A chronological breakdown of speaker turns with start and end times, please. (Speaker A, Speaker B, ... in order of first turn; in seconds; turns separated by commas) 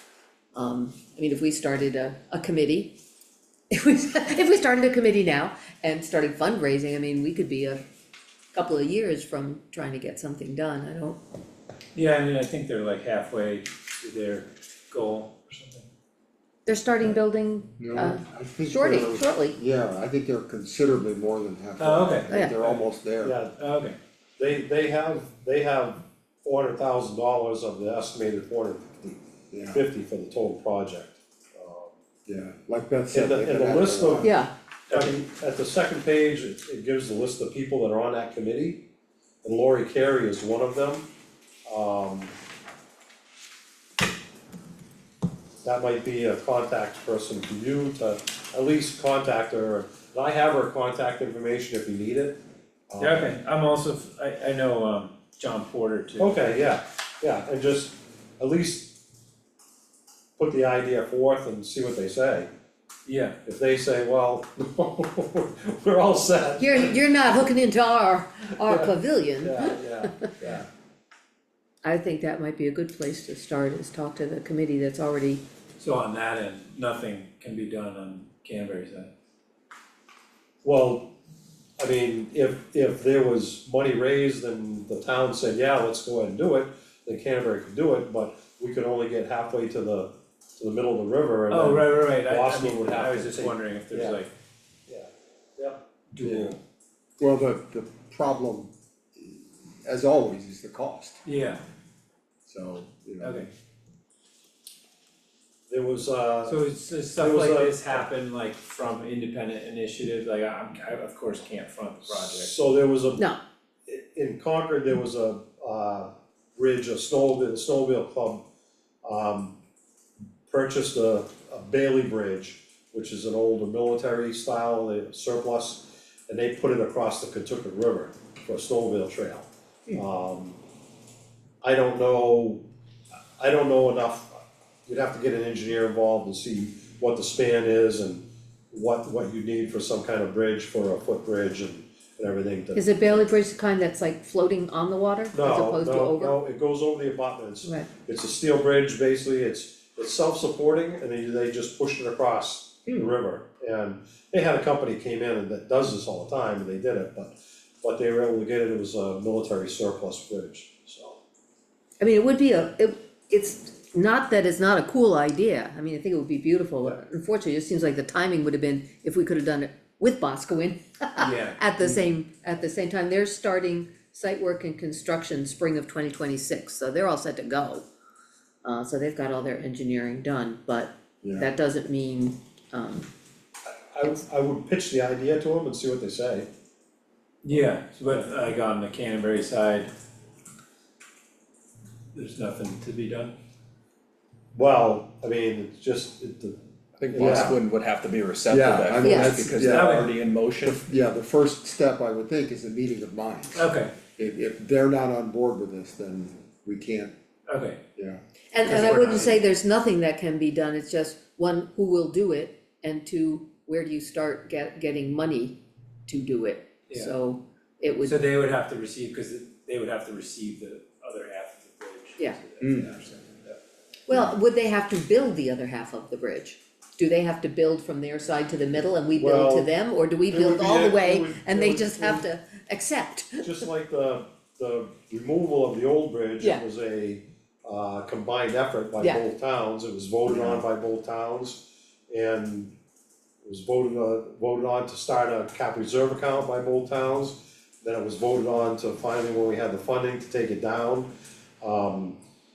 Speaker A: 0.5-3.0, Speaker A: 3.7-7.8, Speaker A: 8.5-11.2, Speaker B: 11.9-15.8, Speaker A: 16.6-19.6, Speaker C: 17.8-23.4, Speaker B: 21.8-22.8, Speaker A: 22.3-22.5, Speaker D: 23.2-23.5, Speaker B: 23.6-24.0, Speaker D: 24.4-29.2, Speaker C: 29.5-29.8, Speaker D: 29.7-31.9, Speaker C: 32.2-34.4, Speaker D: 33.1-34.3, Speaker A: 34.2-34.5, Speaker D: 34.9-38.8, Speaker D: 39.4-41.1, Speaker D: 41.6-42.3, Speaker D: 45.6-52.4, Speaker D: 52.9-53.4, Speaker B: 53.0-56.4, Speaker D: 56.2-59.0, Speaker D: 60.4-62.5, Speaker B: 63.0-63.4, Speaker D: 63.5-67.0, Speaker A: 66.6-69.8, Speaker D: 68.6-70.7, Speaker A: 71.8-75.4, Speaker B: 75.8-79.1, Speaker D: 80.6-81.1, Speaker D: 81.8-94.2, Speaker B: 91.5-94.3, Speaker D: 94.9-96.5, Speaker B: 96.1-96.6, Speaker C: 97.2-101.2, Speaker B: 101.2-101.6, Speaker C: 102.4-103.5, Speaker B: 103.2-103.5, Speaker D: 105.7-106.6, Speaker B: 106.4-112.5, Speaker D: 107.2-108.0, Speaker D: 112.1-113.3, Speaker D: 113.8-118.4, Speaker D: 119.0-119.6, Speaker D: 120.5-130.6, Speaker D: 131.6-132.6, Speaker D: 133.4-143.2, Speaker A: 142.7-146.3, Speaker D: 145.3-161.2, Speaker A: 162.0-177.8, Speaker B: 171.2-171.7, Speaker A: 178.6-183.1, Speaker C: 181.2-181.5, Speaker D: 183.9-186.5, Speaker B: 187.4-189.9, Speaker B: 192.1-193.3, Speaker D: 194.5-196.6, Speaker E: 197.0-200.7, Speaker D: 197.1-197.5, Speaker C: 197.1-197.6, Speaker B: 197.3-200.8, Speaker C: 198.5-200.1, Speaker A: 199.0-199.3, Speaker C: 200.6-207.1, Speaker B: 203.5-203.9, Speaker B: 207.5-207.8, Speaker C: 207.9-208.2, Speaker A: 208.5-218.2, Speaker B: 208.7-209.4, Speaker B: 218.0-223.6, Speaker A: 224.1-233.5, Speaker D: 229.2-229.7, Speaker D: 230.3-232.2, Speaker D: 233.4-242.8, Speaker C: 240.3-240.6, Speaker D: 243.4-251.1, Speaker D: 251.6-252.2